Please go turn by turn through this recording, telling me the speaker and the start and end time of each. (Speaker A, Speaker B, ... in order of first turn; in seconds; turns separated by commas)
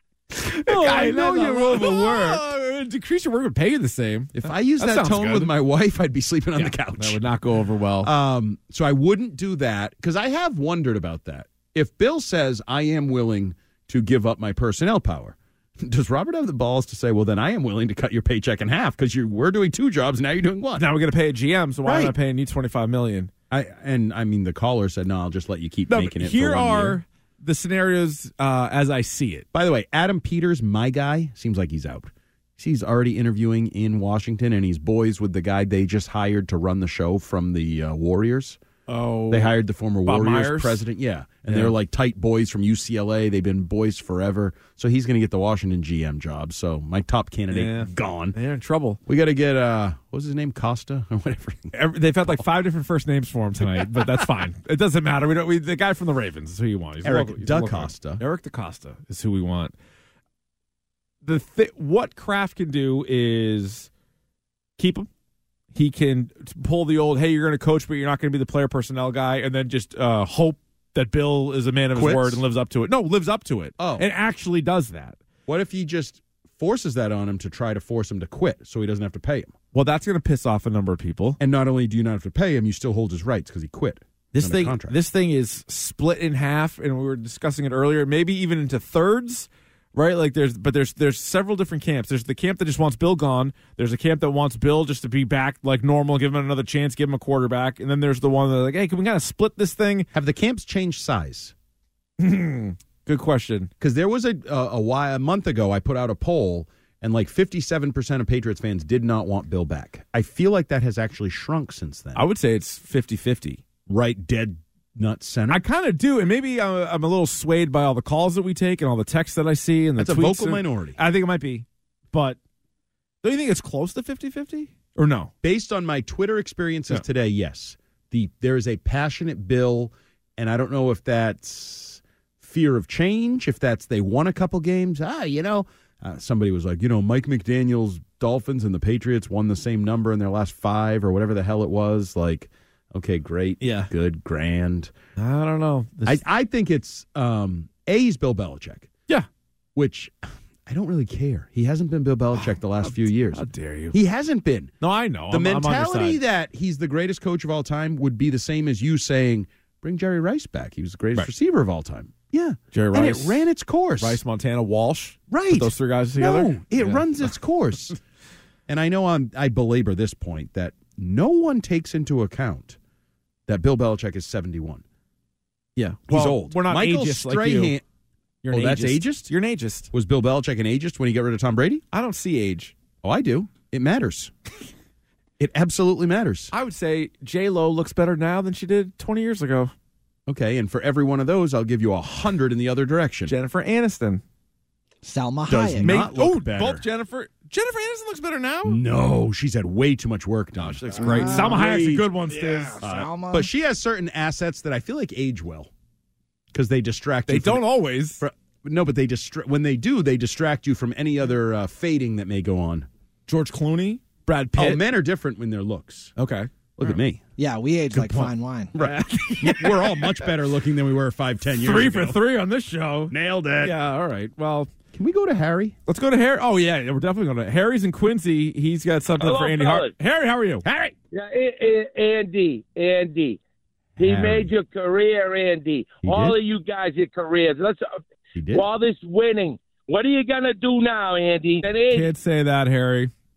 Speaker A: 0.3-5.5, Speaker B: 0.7-2.5, Speaker B: 4.3-7.2, Speaker A: 6.5-8.1, Speaker B: 8.0-20.9, Speaker A: 20.8-23.3, Speaker B: 21.8-22.1, Speaker B: 23.5-27.0, Speaker A: 25.9-29.4, Speaker B: 29.5-38.6, Speaker A: 38.9-40.8, Speaker B: 39.3-48.4, Speaker A: 41.5-41.8, Speaker A: 47.5-49.0, Speaker B: 49.0-51.7, Speaker A: 51.7-59.7, Speaker B: 57.0-58.2, Speaker A: 61.2-63.9, Speaker A: 64.8-65.1, Speaker A: 65.7-75.2, Speaker B: 71.9-72.4, Speaker B: 73.8-74.1, Speaker B: 75.5-79.5, Speaker A: 79.7-81.4, Speaker B: 81.4-85.0, Speaker A: 84.3-100.1, Speaker B: 100.1-101.5, Speaker A: 102.2-103.7, Speaker B: 103.8-112.3, Speaker A: 112.1-113.6, Speaker B: 113.9-115.6, Speaker A: 115.5-122.4, Speaker B: 120.0-121.0, Speaker A: 123.2-125.3, Speaker B: 125.4-144.9, Speaker A: 143.6-143.9, Speaker A: 145.2-146.2, Speaker B: 146.1-148.9, Speaker B: 149.7-150.1, Speaker B: 150.7-154.7, Speaker A: 152.3-153.9, Speaker A: 154.8-156.2, Speaker B: 155.3-164.2, Speaker A: 162.7-163.5, Speaker A: 164.0-167.0, Speaker B: 165.3-168.0, Speaker B: 168.7-172.8, Speaker B: 173.5-174.8, Speaker A: 175.8-177.8, Speaker B: 176.1-177.8, Speaker A: 178.4-179.9, Speaker B: 178.5-179.3, Speaker B: 179.9-181.8, Speaker A: 181.9-182.7, Speaker B: 183.0-184.3, Speaker B: 185.4-186.5, Speaker A: 186.5-189.7, Speaker B: 190.3-193.3, Speaker A: 193.2-194.2, Speaker C: 195.0-196.0, Speaker B: 195.5-196.8, Speaker A: 195.8-198.8, Speaker B: 198.7-202.1, Speaker A: 200.6-202.8, Speaker C: 201.0-203.5, Speaker B: 202.8-205.7, Speaker B: 206.5-212.9, Speaker A: 207.3-208.2, Speaker A: 213.3-214.8, Speaker B: 214.6-216.1, Speaker A: 216.2-216.9, Speaker B: 216.8-217.2, Speaker C: 217.4-218.7, Speaker A: 217.9-220.3, Speaker B: 218.7-222.2, Speaker A: 221.4-224.7, Speaker B: 223.1-223.8, Speaker B: 224.9-225.8, Speaker A: 225.8-230.6, Speaker D: 229.2-229.9, Speaker B: 230.6-230.9, Speaker D: 231.1-233.4, Speaker D: 234.0-237.8, Speaker B: 234.0-234.5, Speaker B: 236.0-236.4, Speaker B: 238.3-238.7, Speaker D: 238.5-242.1, Speaker A: 241.9-243.1